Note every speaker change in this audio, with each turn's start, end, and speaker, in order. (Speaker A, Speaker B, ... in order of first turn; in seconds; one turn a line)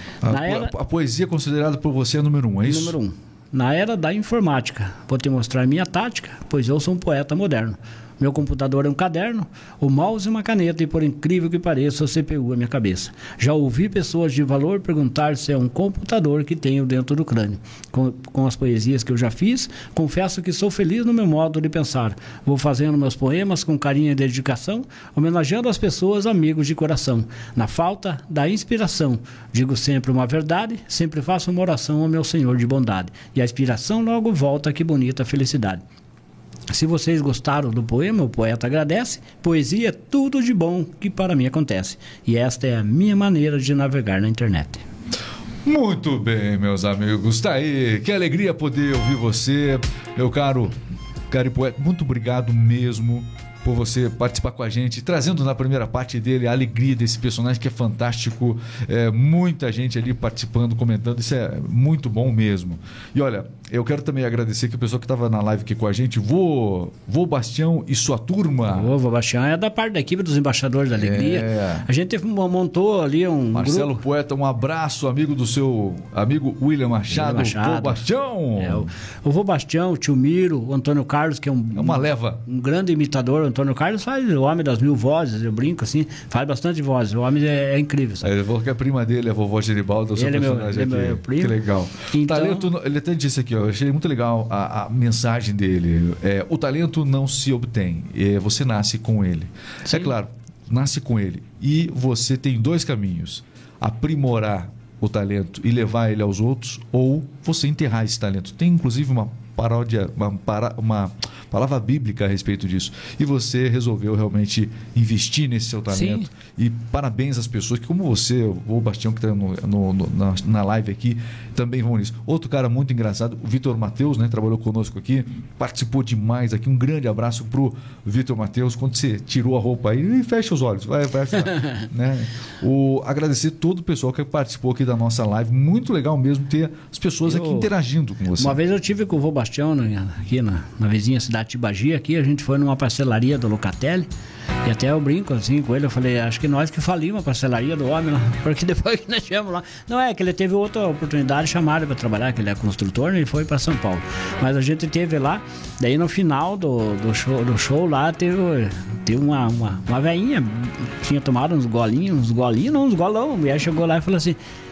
Speaker A: 0.2-3.0
Speaker B: 0.3-0.7
Speaker B: 2.6-35.8
Speaker B: 36.7-44.8
Speaker A: 45.6-50.8
Speaker A: 51.3-68.9
Speaker B: 68.7-74.0
Speaker A: 71.0-71.9
Speaker A: 73.5-78.9
Speaker B: 77.1-78.1
Speaker B: 78.6-88.3
Speaker A: 81.8-82.4
Speaker A: 88.2-138.6
Speaker B: 90.2-91.6
Speaker B: 92.1-92.7
Speaker B: 99.9-100.1
Speaker B: 115.9-116.3
Speaker B: 137.3-137.7
Speaker B: 138.4-144.1
Speaker B: 144.6-164.4